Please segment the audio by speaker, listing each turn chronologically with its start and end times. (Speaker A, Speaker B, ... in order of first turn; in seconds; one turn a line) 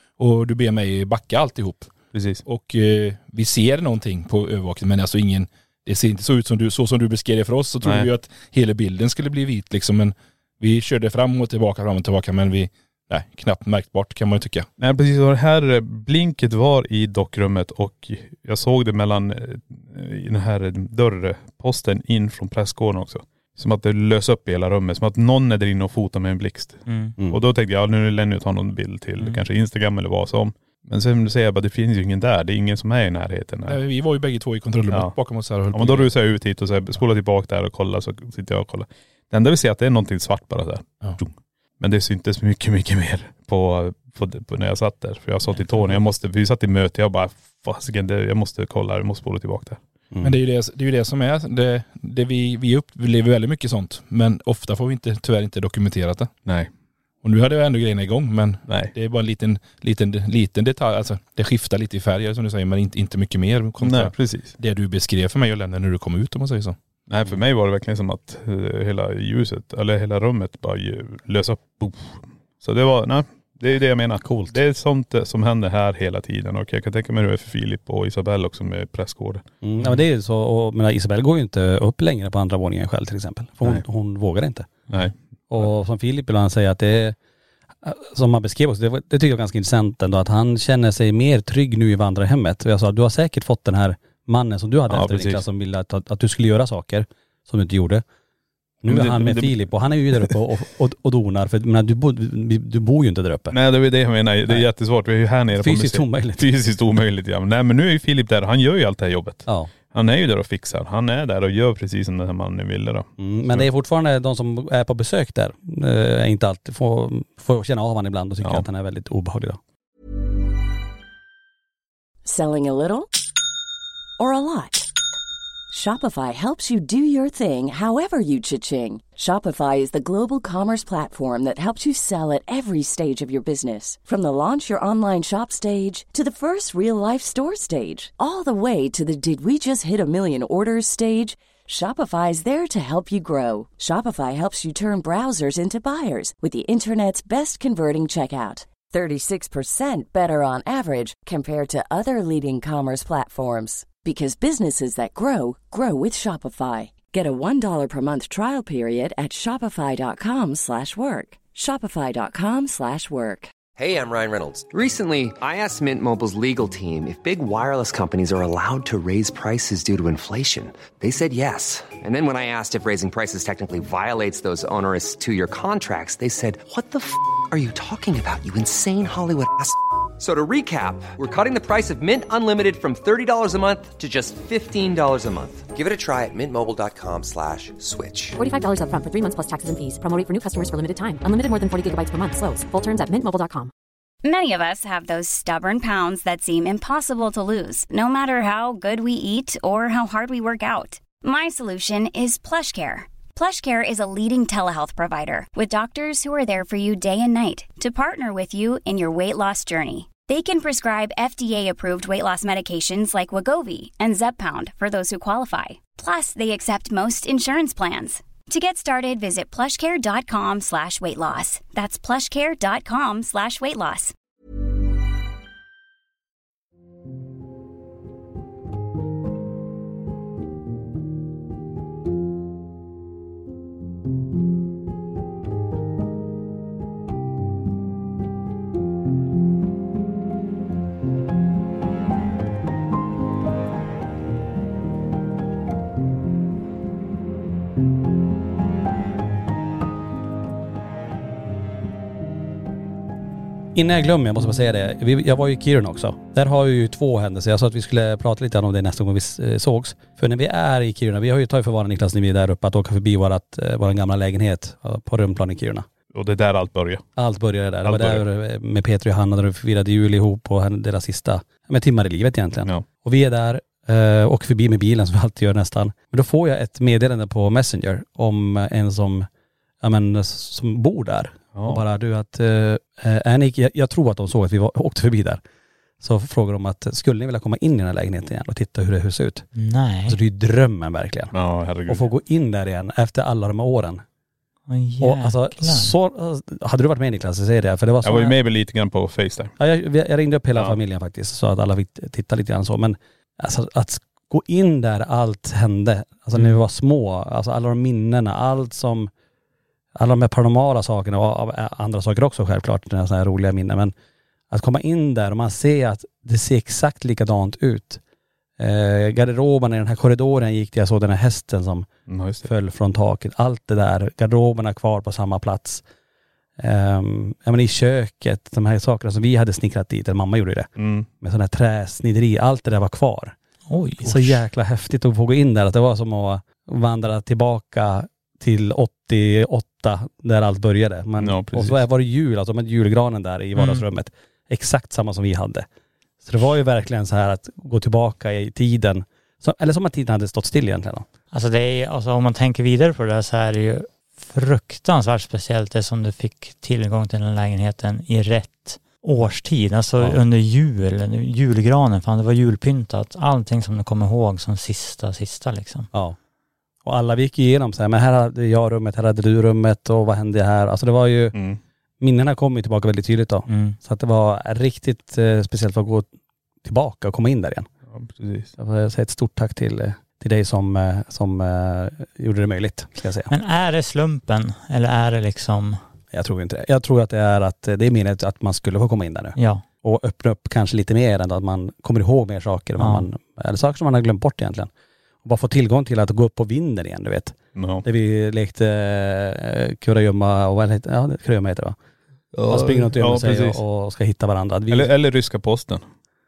Speaker A: 0.2-14.7
Speaker B: 2.1-2.4
Speaker B: 7.8-8.1
Speaker B: 14.8-33.8
Speaker C: 26.9-27.1
Speaker D: 27.2-27.4
Speaker A: 33.7-36.1
Speaker B: 34.9-35.1
Speaker B: 35.7-49.8
Speaker D: 50.1-50.4
Speaker A: 50.2-56.3
Speaker A: 57.2-66.8
Speaker B: 58.7-58.9
Speaker B: 63.8-64.5
Speaker B: 67.1-79.5
Speaker D: 74.2-74.5
Speaker D: 79.6-84.7
Speaker B: 84.9-85.7
Speaker D: 85.5-87.2
Speaker D: 87.8-98.0
Speaker B: 94.9-95.4
Speaker D: 98.8-103.6
Speaker B: 98.8-99.6
Speaker B: 103.5-113.7
Speaker D: 105.5-106.5
Speaker D: 113.2-119.6
Speaker E: 122.2-123.1
Speaker E: 124.2-124.9
Speaker E: 125.7-163.5
Speaker F: 163.7-188.4
Speaker G: 188.4-193.7
Speaker H: 194.2-224.1
Speaker D: 253.7-265.9
Speaker B: 266.1-267.1
Speaker D: 267.1-279.3
Speaker B: 267.8-268.2
Speaker D: 279.8-285.4
Speaker B: 281.5-281.8
Speaker D: 286.0-289.5
Speaker C: 289.6-290.2
Speaker D: 290.1-291.3
Speaker B: 291.3-292.1
Speaker D: 291.9-294.0
Speaker C: 294.7-295.9
Speaker D: 295.0-298.4
Speaker B: 298.0-299.5
Speaker D: 299.6-309.1
Speaker D: 309.9-313.9
Speaker D: 314.5-318.0
Speaker D: 318.6-321.9
Speaker B: 322.1-322.5
Speaker D: 322.4-325.8
Speaker D: 326.6-330.7
Speaker B: 330.8-331.1
Speaker D: 331.2-333.3
Speaker C: 333.7-334.4
Speaker D: 334.0-345.7
Speaker B: 341.2-341.8
Speaker C: 343.6-343.8
Speaker D: 346.2-351.1
Speaker C: 351.3-365.9
Speaker D: 366.8-371.4
Speaker B: 371.3-371.6
Speaker D: 372.0-376.1
Speaker C: 373.5-373.8
Speaker D: 376.6-377.7
Speaker B: 377.9-378.5
Speaker D: 378.6-383.3
Speaker C: 383.3-385.8
Speaker D: 386.1-394.7
Speaker C: 389.4-389.6
Speaker C: 392.8-393.1
Speaker D: 395.2-401.8
Speaker B: 397.5-397.8
Speaker B: 402.3-403.6
Speaker D: 402.5-404.9
Speaker B: 404.7-405.8